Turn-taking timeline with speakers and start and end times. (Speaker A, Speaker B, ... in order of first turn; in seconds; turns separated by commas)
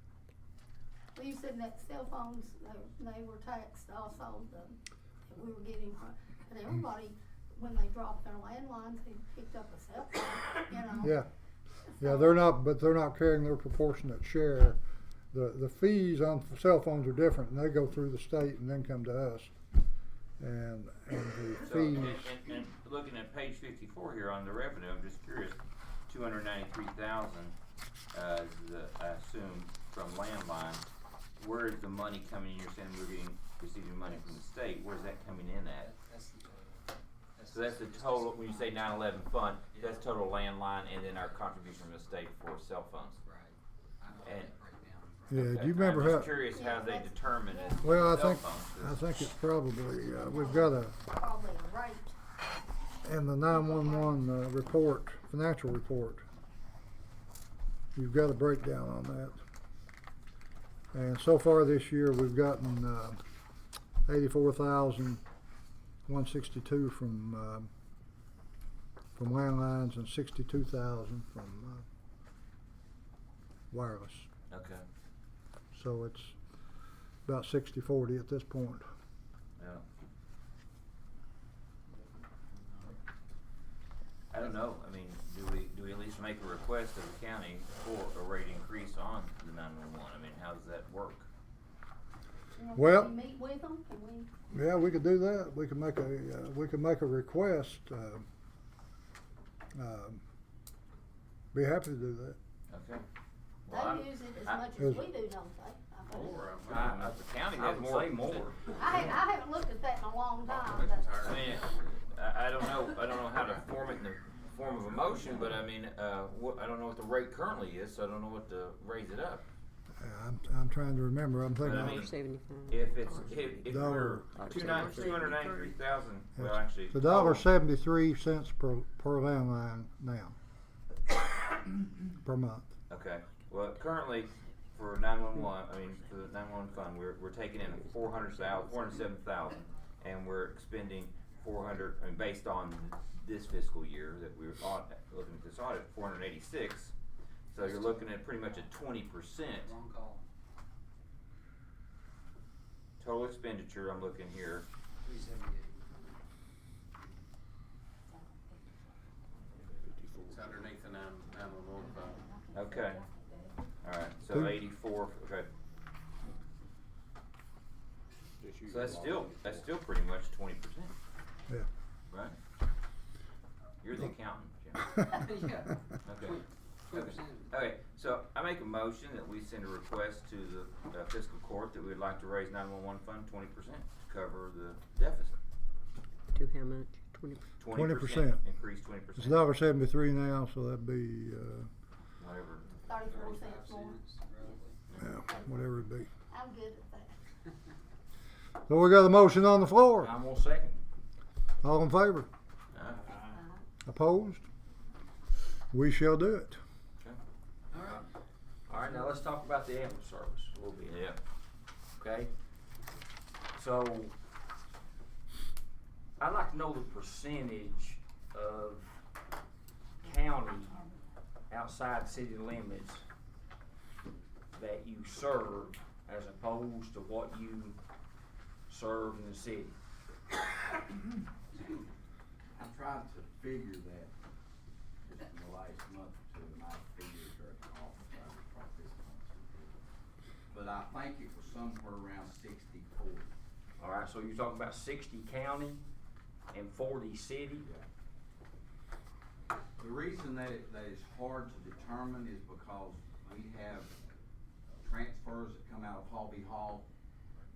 Speaker A: 1.1-11.2, Speaker B: 11.0-11.3, Speaker A: 11.9-12.4, Speaker B: 12.0-14.8, Speaker B: 15.3-19.5, Speaker B: 20.4-22.3, Speaker C: 21.6-27.5, Speaker C: 28.1-30.9, Speaker C: 31.4-35.9, Speaker D: 35.8-39.1, Speaker C: 37.5-43.2, Speaker D: 39.7-40.1, Speaker D: 43.2-45.4, Speaker C: 44.2-44.5, Speaker B: 45.3-46.5, Speaker C: 45.4-49.0, Speaker A: 46.5-48.1, Speaker B: 47.8-51.0, Speaker A: 50.1-52.2, Speaker B: 53.0-56.2, Speaker A: 53.5-54.3, Speaker B: 57.9-59.4, Speaker B: 60.9-63.2, Speaker B: 64.0-65.2, Speaker B: 66.1-67.7, Speaker B: 69.2-71.8, Speaker B: 73.7-74.3, Speaker C: 74.5-74.8, Speaker B: 75.7-76.3, Speaker B: 77.2-78.9, Speaker C: 79.6-79.8, Speaker C: 84.3-91.3, Speaker A: 92.5-94.3, Speaker B: 92.7-93.1, Speaker B: 94.5-98.2, Speaker B: 99.7-100.2, Speaker B: 101.5-102.4, Speaker C: 102.7-103.0, Speaker C: 103.7-104.7, Speaker A: 103.7-106.5, Speaker B: 104.8-105.0, Speaker E: 106.1-107.2, Speaker C: 106.6-108.6, Speaker F: 107.5-108.6, Speaker A: 108.7-111.3, Speaker E: 110.5-111.8, Speaker C: 111.2-119.5, Speaker B: 120.0-122.1, Speaker C: 121.6-122.1, Speaker G: 121.6-125.8, Speaker C: 122.7-127.5, Speaker B: 123.7-124.2, Speaker B: 126.3-130.4, Speaker B: 132.2-132.7, Speaker C: 132.9-146.9, Speaker G: 138.4-138.9, Speaker C: 147.5-149.7, Speaker D: 147.6-148.1, Speaker D: 149.6-150.3, Speaker C: 153.0-154.7, Speaker D: 155.0-155.8, Speaker E: 160.2-162.2, Speaker A: 162.2-163.4, Speaker C: 162.5-163.1, Speaker C: 163.8-165.5, Speaker B: 164.3-164.5, Speaker H: 168.4-169.6, Speaker C: 168.6-170.9, Speaker C: 172.1-172.4, Speaker C: 173.8-175.0, Speaker D: 174.9-177.5, Speaker C: 176.0-185.3, Speaker G: 186.3-187.4, Speaker C: 187.6-189.5, Speaker B: 187.7-188.4, Speaker B: 189.2-191.7, Speaker C: 192.2-192.7, Speaker A: 192.8-194.0, Speaker D: 192.9-194.8, Speaker B: 195.0-196.1, Speaker A: 196.3-197.2, Speaker B: 198.7-200.1, Speaker F: 200.0-200.8, Speaker B: 201.6-202.3, Speaker C: 202.7-203.0, Speaker B: 203.8-204.4, Speaker B: 205.7-206.6, Speaker D: 207.7-208.0, Speaker F: 208.7-211.0, Speaker C: 210.8-211.2, Speaker F: 212.0-212.3, Speaker F: 213.5-214.1, Speaker F: 216.2-219.0, Speaker F: 220.0-220.8, Speaker F: 221.5-223.0, Speaker F: 224.5-227.8, Speaker F: 228.7-229.8, Speaker H: 232.6-234.1, Speaker H: 235.0-239.8, Speaker H: 240.5-243.3, Speaker F: 243.8-245.8, Speaker F: 246.5-247.7, Speaker H: 249.8-253.9, Speaker H: 254.8-256.9